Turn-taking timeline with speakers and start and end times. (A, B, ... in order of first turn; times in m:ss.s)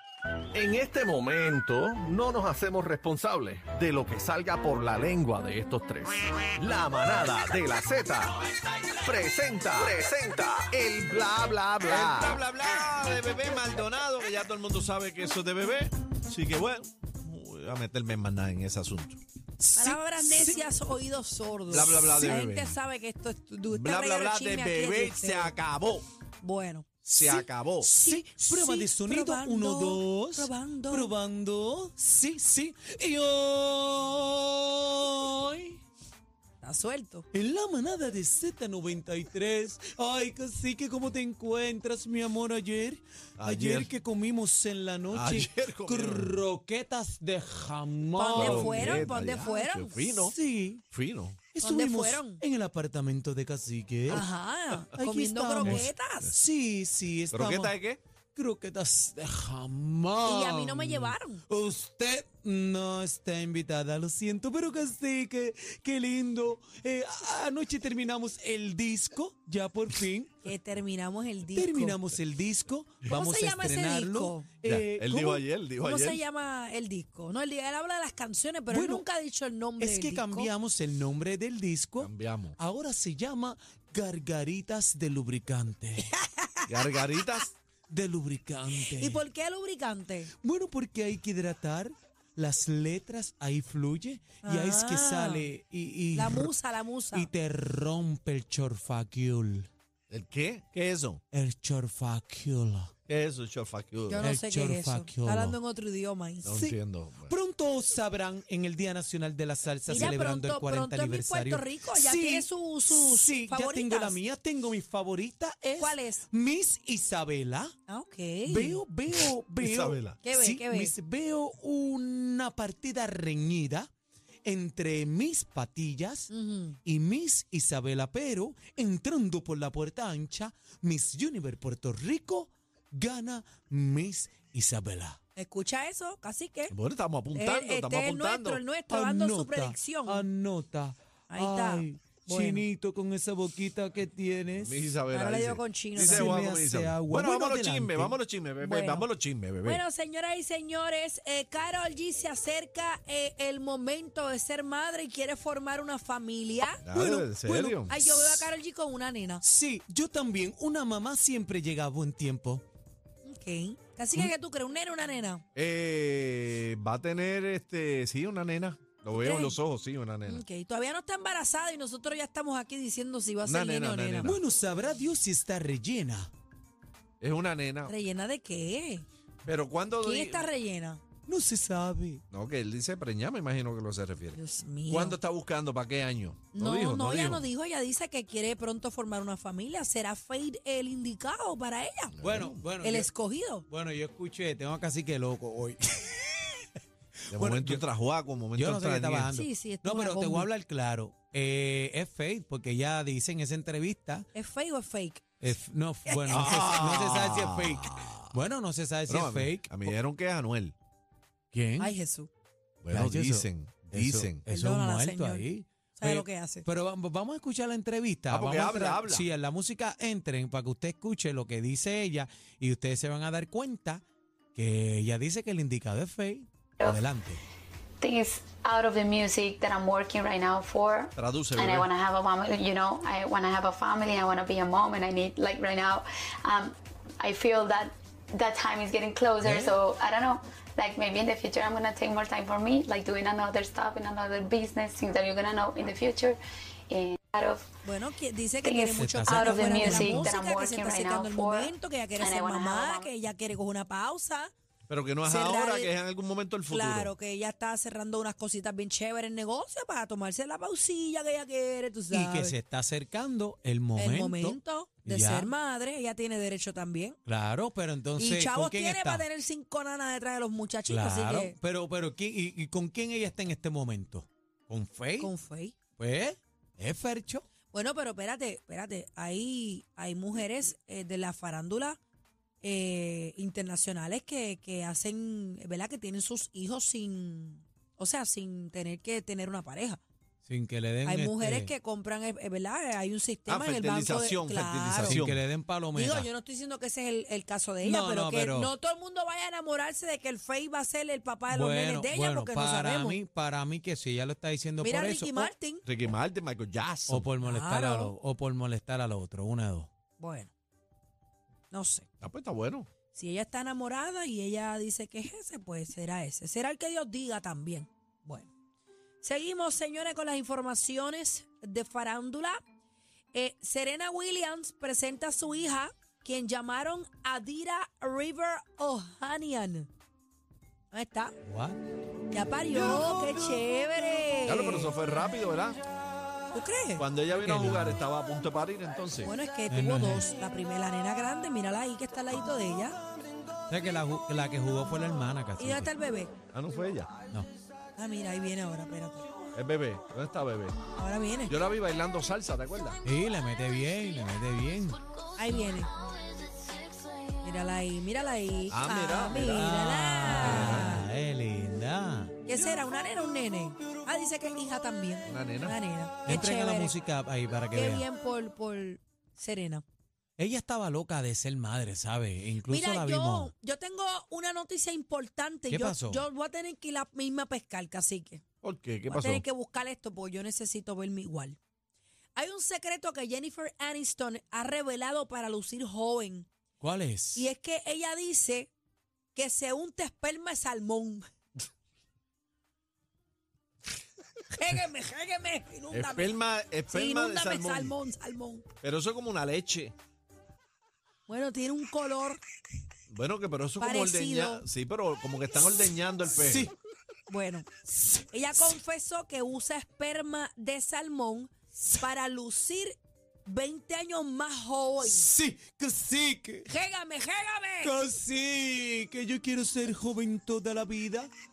0:00.5-0:12.4 A
0:11.8-0:19.2 B
0:19.6-0:20.6 C
0:19.8-0:25.5 D
0:21.7-0:22.8 B
0:23.7-0:26.1 B
0:26.4-0:31.1 D
0:27.1-0:27.9 B
0:27.2-0:35.8 C
0:36.6-0:37.3 D
0:37.3-0:49.2 C
0:43.4-0:43.9 B
0:45.1-0:46.4 B
0:48.2-0:50.2 D
0:48.3-0:50.3 B
0:50.2-0:50.8 C
0:50.9-0:51.5 B
0:51.5-0:54.2 C
0:51.6-0:52.4 D
0:54.1-0:56.4 D
0:54.9-0:57.7 C
0:57.3-0:58.0 B
0:58.3-1:10.5 C
1:00.2-1:01.4 D
1:10.4-1:12.0 D
1:11.5-1:15.4 C
1:13.1-1:14.5 D
1:14.6-1:16.2 B
1:15.8-1:20.5 D
1:18.7-1:19.0 C
1:19.8-1:26.1 C
1:22.0-1:22.6 B
1:26.3-1:26.6 D
1:26.7-1:27.5 B
1:27.9-1:29.2 C
1:28.9-1:30.3 D
1:30.4-1:36.5 C
1:34.4-1:35.5 D
1:36.1-1:37.3 D
1:37.1-1:39.7 C
1:40.1-1:41.2 B
1:41.3-1:42.9 C
1:43.1-1:44.2 B
1:44.1-1:46.7 D
1:44.2-1:45.6 C
1:46.4-1:47.3 B
1:46.5-1:46.8 C
1:47.3-1:57.7 C
1:49.9-1:54.2 D
1:55.8-1:56.2 D
1:57.9-1:58.8 D
1:58.4-2:03.9 C
1:59.6-2:00.2 B
2:00.2-2:00.9 D
2:04.4-2:06.3 C
2:06.3-2:06.8 D
2:06.8-2:15.2 C
2:15.4-2:16.7 D
2:16.7-2:18.6 B
2:17.3-2:20.2 D
2:18.9-2:24.8 C
2:21.3-2:22.6 D
2:24.6-2:29.8 B
2:25.1-2:26.4 D
2:26.0-2:28.2 C
2:28.6-2:29.1 D
2:29.6-2:36.8 D
2:36.8-2:37.9 B
2:36.9-2:38.4 C
2:37.9-2:39.4 D
2:39.4-2:42.6 C
2:43.2-2:45.4 D
2:45.5-2:50.4 B
2:49.2-2:49.6 D
2:50.2-2:54.3 D
2:53.4-2:54.4 B
2:54.2-2:56.3 C
2:57.2-2:57.9 B
2:57.9-2:59.0 D
2:59.4-3:00.5 B
3:00.0-3:01.0 D
3:01.3-3:02.2 C
3:02.3-3:07.5 B
3:04.3-3:05.2 D
3:06.5-3:12.1 D
3:12.2-3:12.6 B
3:12.2-3:13.1 C
3:12.8-3:13.6 D
3:13.7-3:16.6 C
3:17.3-3:17.8 C
3:17.3-3:19.3 B
3:18.5-3:24.3 C
3:19.3-3:20.5 D
3:24.3-3:25.2 D
3:25.4-3:29.9 C
3:26.1-3:26.6 D
3:26.3-3:28.2 B
3:29.1-3:30.7 B
3:31.5-3:31.9 C
3:31.8-3:32.3 D
3:32.8-3:34.4 B
3:32.9-3:44.0 C
3:34.5-3:36.6 D
3:38.3-3:39.2 B
3:44.5-3:47.4 C
3:48.0-4:07.7 E
3:51.2-3:51.9 B
3:59.4-3:59.7 C
4:07.8-4:14.5 D
4:08.6-4:13.1 E
4:09.0-4:10.3 C
4:14.9-4:17.1 B
4:15.2-4:15.9 D
4:16.7-4:22.5 D
4:22.1-4:25.5 C
4:24.0-4:27.2 D
4:27.2-4:29.3 C
4:28.2-4:31.6 D
4:30.9-4:35.3 C
4:35.2-4:35.8 D
4:36.0-4:37.4 C
4:37.7-4:42.0 D
4:42.6-4:50.0 D
4:50.4-4:51.7 C
4:51.0-4:55.2 D
4:53.5-4:55.4 B
4:55.0-4:56.3 C
4:55.9-5:03.2 D
4:57.8-4:58.7 C
5:01.5-5:05.5 C
5:04.8-5:05.8 D
5:05.8-5:07.3 B
5:07.1-5:09.9 C
5:07.4-5:08.1 D
5:10.2-5:10.5 D
5:11.7-5:12.1 D
5:12.2-5:12.9 B
5:13.1-5:18.5 D
5:19.2-5:22.6 D
5:23.3-5:29.9 D
5:30.9-5:31.4 D
5:31.4-5:31.8 C
5:32.3-5:35.0 D
5:34.4-5:35.8 B
5:36.5-5:37.0 D
5:37.0-5:39.3 B
5:37.4-5:38.0 C
5:39.2-5:43.0 D
5:39.7-5:40.3 C
5:43.7-5:45.9 C
5:45.6-5:46.3 D
5:46.5-5:47.1 B
5:48.0-5:49.2 D
5:49.5-5:50.8 B
5:50.9-5:51.6 D
5:51.5-5:53.0 B
5:53.0-5:55.0 C
5:55.4-5:55.9 D
5:57.4-6:01.1 D
5:58.7-5:59.6 B
5:59.3-6:02.3 C
6:00.3-6:00.9 B
6:02.4-6:06.9 D
6:05.2-6:05.8 B
6:06.2-6:08.0 C
6:07.7-6:09.8 D
6:10.4-6:13.5 C
6:12.7-6:18.4 D
6:15.7-6:16.2 C
6:18.6-6:19.4 B
6:19.1-6:21.6 D
6:22.3-6:26.5 D
6:26.8-6:27.5 C
6:27.3-6:28.7 D
6:29.3-6:31.3 D
6:34.5-6:36.4 D
6:35.9-6:38.0 B
6:36.9-6:38.7 D
6:38.8-6:39.9 B
6:41.3-6:42.4 D
6:43.1-6:46.7 B
6:43.8-6:44.6 D
6:46.4-6:46.7 C
6:47.3-6:47.8 D
6:48.3-6:55.3 D
6:55.0-6:56.7 C
6:56.7-6:57.9 D
6:57.8-7:01.3 C